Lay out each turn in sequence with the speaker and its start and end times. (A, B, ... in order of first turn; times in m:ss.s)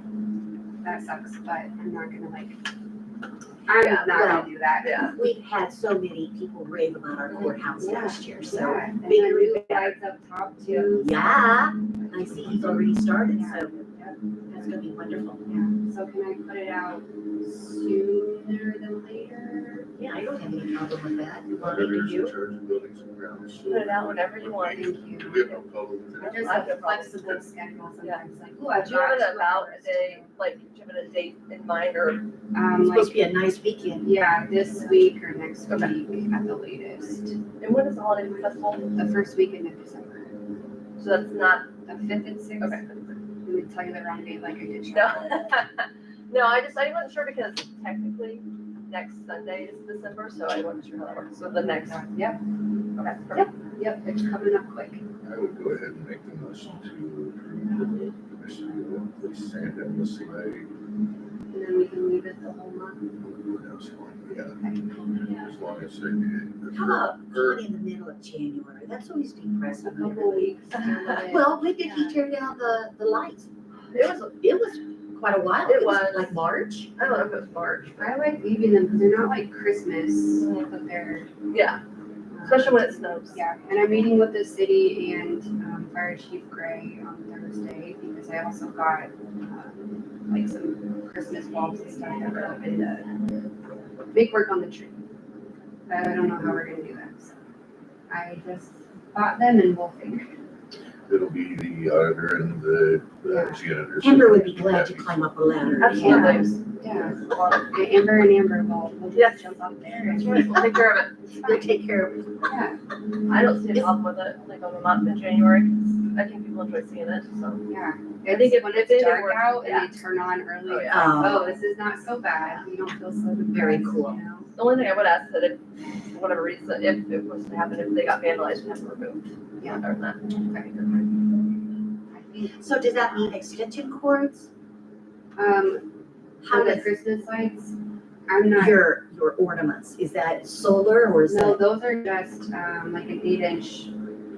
0:00.8-0:02.6 A
0:03.7-0:05.1 A
0:03.8-0:05.2 B
0:04.1-0:04.5 C
0:05.1-0:10.0 C
0:07.8-0:14.8 A
0:10.9-0:13.8 C
0:12.1-0:12.9 D
0:14.5-0:15.5 C
0:15.5-0:19.9 A
0:20.0-0:22.3 C
0:21.5-0:27.5 D
0:23.7-0:24.9 B
0:24.7-0:25.5 A
0:26.2-0:27.1 B
0:26.2-0:30.4 A
0:28.8-0:32.3 B
0:32.5-0:33.3 A
0:32.8-0:34.1 C
0:34.0-0:37.4 A
0:34.8-0:35.0 B
0:35.7-0:36.0 B
0:37.6-0:38.9 B
0:39.0-0:40.3 A
0:41.0-0:41.7 B
0:41.9-0:42.8 A
0:42.6-0:43.2 B
0:43.4-0:45.6 A
0:44.9-0:52.1 B
0:51.5-0:52.4 A
0:53.0-0:53.5 B
0:53.3-0:55.0 A
0:55.2-1:00.7 D
1:01.5-1:03.1 A
1:03.2-1:04.6 D
1:04.6-1:04.8 A
1:05.3-1:07.6 D
1:06.7-1:10.6 C
1:09.8-1:12.1 A
1:11.2-1:13.5 C
1:13.9-1:14.4 B
1:14.4-1:16.9 C
1:15.7-1:16.4 B
1:17.0-1:18.2 B
1:18.0-1:21.3 A
1:20.4-1:20.7 B
1:21.5-1:21.8 B
1:22.3-1:33.1 A
1:22.4-1:23.4 B
1:31.9-1:33.0 B
1:34.1-1:35.0 A
1:35.9-1:37.4 A
1:38.1-1:40.4 A
1:41.1-1:46.3 D
1:43.2-1:43.6 A
1:44.0-1:46.4 C
1:45.8-1:46.6 B
1:45.9-1:50.6 A
1:46.9-1:47.2 D
1:47.2-1:47.7 B
1:49.1-1:51.2 B
1:50.3-1:50.8 C
1:51.3-1:51.7 A
1:51.4-1:52.3 C
1:52.5-1:52.8 A
1:53.3-1:57.6 B
1:57.7-2:04.5 A
1:58.3-2:00.0 B
2:00.6-2:01.2 B
2:00.9-2:01.6 C
2:03.5-2:04.2 C
2:04.5-2:05.6 B
2:06.1-2:11.1 B
2:09.6-2:10.7 A
2:12.1-2:13.4 A
2:12.6-2:14.5 C
2:15.4-2:15.9 A
2:16.4-2:16.9 C
2:16.5-2:17.8 A
2:18.3-2:18.9 A
2:18.5-2:21.6 C
2:21.3-2:23.9 A